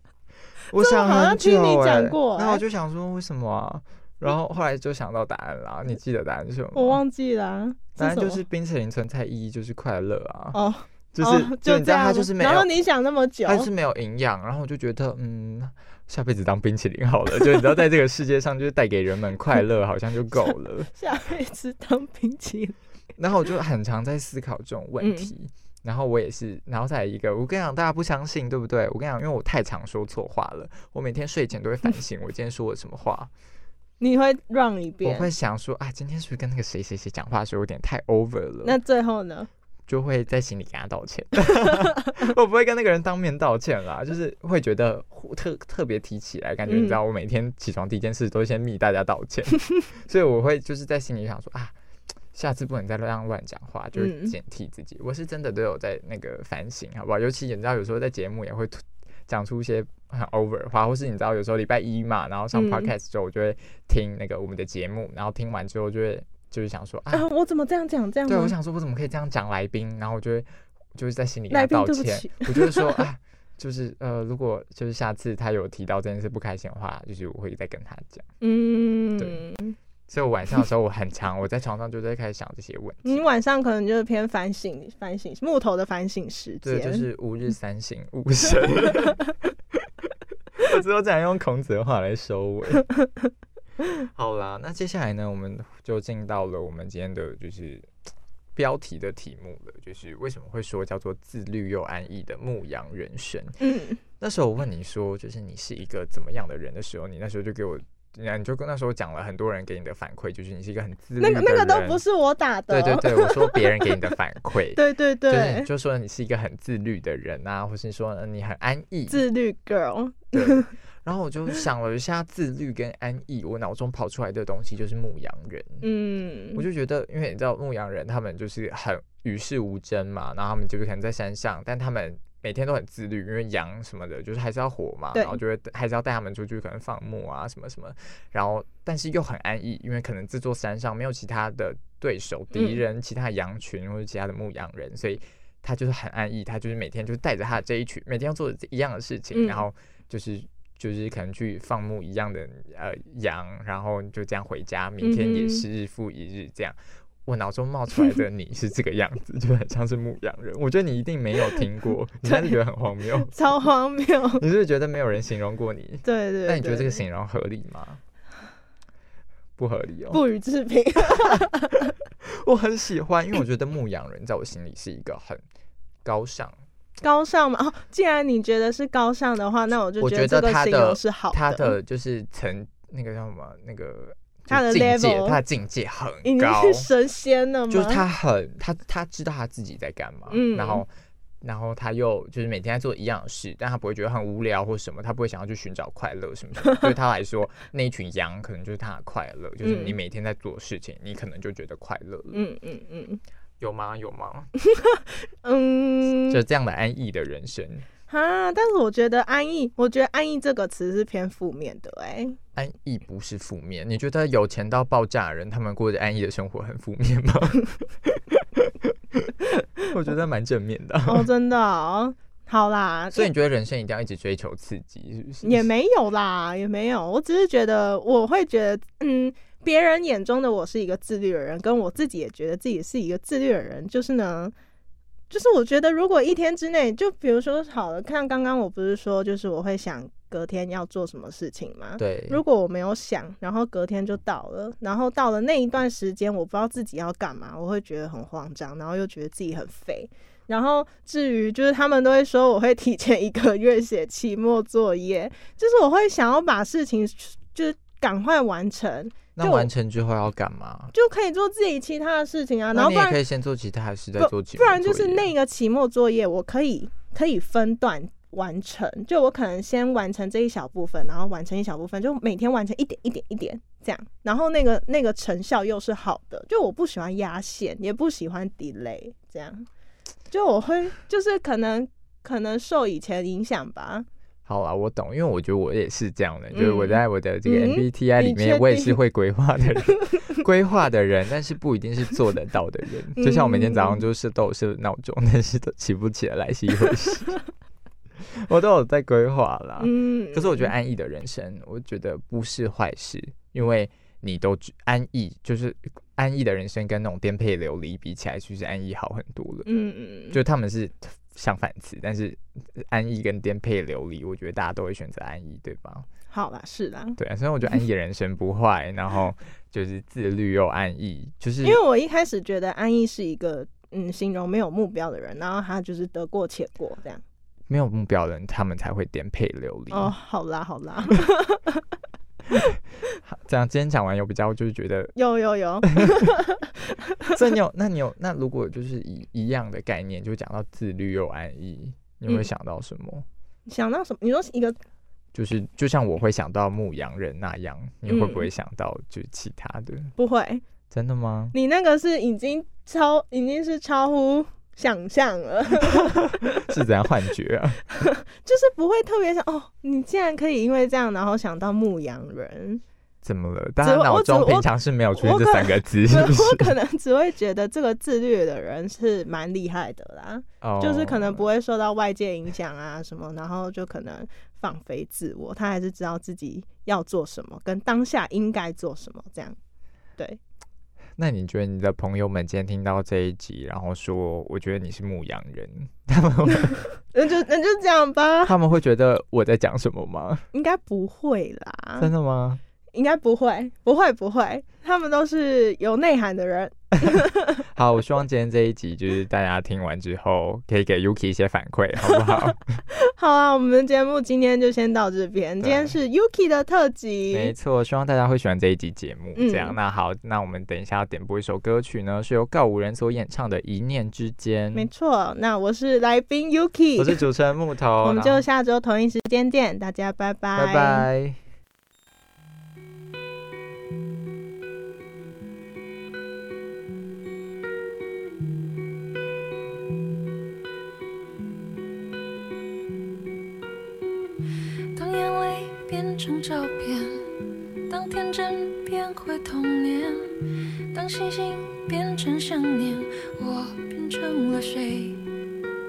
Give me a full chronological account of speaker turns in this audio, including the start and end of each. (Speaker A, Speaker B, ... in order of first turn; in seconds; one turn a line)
Speaker A: 0.7-7.0
Speaker B: 0.7-2.6
Speaker B: 6.7-8.4
Speaker A: 8.0-10.6
Speaker B: 10.5-13.7
Speaker A: 11.1-12.7
Speaker A: 13.5-20.9
Speaker B: 21.0-22.8
Speaker A: 23.2-33.3
Speaker B: 25.0-25.3
Speaker B: 34.0-35.3
Speaker A: 35.0-38.8
Speaker B: 38.6-39.5
Speaker A: 39.9-51.7
Speaker B: 46.7-47.0
Speaker A: 52.3-67.3
Speaker B: 54.0-54.4
Speaker B: 62.5-62.9
Speaker B: 67.1-68.5
Speaker A: 68.3-78.3
Speaker B: 71.5-73.0
Speaker B: 78.4-79.8
Speaker A: 80.1-83.2
Speaker B: 83.0-87.0
Speaker A: 86.6-89.2
Speaker A: 90.6-92.9
Speaker A: 93.9-97.9
Speaker A: 98.5-103.6
Speaker B: 103.6-104.0
Speaker A: 104.2-112.0
Speaker B: 111.2-113.6
Speaker A: 112.7-119.2
Speaker B: 114.8-115.7
Speaker B: 119.1-120.7
Speaker A: 120.3-125.8
Speaker B: 125.8-126.6
Speaker A: 126.5-163.4
Speaker B: 135.1-135.4
Speaker B: 142.5-142.8
Speaker B: 149.3-149.6
Speaker B: 155.0-155.7
Speaker B: 162.2-162.6
Speaker B: 163.2-164.4
Speaker A: 164.4-168.0
Speaker B: 166.0-167.0
Speaker A: 169.6-170.2
Speaker B: 170.1-171.9
Speaker A: 172.2-175.4
Speaker A: 176.0-176.6
Speaker B: 177.0-181.8
Speaker A: 180.0-186.9
Speaker B: 184.5-185.4
Speaker B: 186.2-188.0
Speaker A: 187.7-190.9
Speaker B: 190.3-190.8
Speaker A: 191.4-202.4
Speaker B: 199.6-200.0
Speaker B: 202.3-203.2
Speaker A: 203.6-204.5
Speaker B: 204.7-206.4
Speaker A: 206.2-207.9
Speaker B: 208.1-212.4
Speaker A: 212.6-219.3
Speaker A: 219.9-221.3
Speaker B: 221.1-223.3
Speaker A: 223.1-225.7
Speaker B: 225.4-234.5
Speaker B: 235.3-259.7
Speaker A: 242.0-242.4
Speaker A: 259.4-260.9
Speaker B: 260.9-263.2
Speaker A: 262.7-265.3
Speaker B: 264.2-279.7
Speaker B: 280.3-284.1
Speaker A: 284.5-297.4
Speaker B: 286.5-289.0
Speaker B: 290.0-290.3
Speaker B: 293.2-294.0
Speaker A: 298.3-309.7
Speaker B: 299.8-300.7
Speaker B: 309.7-310.4
Speaker A: 310.3-316.1
Speaker B: 316.3-317.2
Speaker A: 317.2-321.8
Speaker B: 321.6-327.2
Speaker A: 327.7-330.1
Speaker B: 329.9-331.8
Speaker A: 333.2-335.1
Speaker B: 335.2-337.3
Speaker A: 337.2-343.3
Speaker B: 343.7-344.8
Speaker A: 345.3-350.1
Speaker B: 348.1-348.5
Speaker B: 350.2-350.6
Speaker A: 350.9-351.6
Speaker B: 351.5-356.7
Speaker A: 355.9-357.8
Speaker B: 357.9-362.8
Speaker A: 363.2-366.7
Speaker B: 363.8-379.6
Speaker A: 370.6-371.5
Speaker A: 381.2-386.9
Speaker B: 387.1-388.6
Speaker A: 388.5-390.5
Speaker B: 390.5-392.1
Speaker A: 392.0-392.6
Speaker B: 392.9-397.6
Speaker A: 397.0-402.8
Speaker B: 402.1-407.5
Speaker A: 405.6-406.0
Speaker A: 407.3-414.9
Speaker B: 409.4-409.8
Speaker B: 414.7-417.2
Speaker A: 417.0-418.4
Speaker B: 418.0-421.1
Speaker A: 420.6-421.4
Speaker C: 434.9-445.3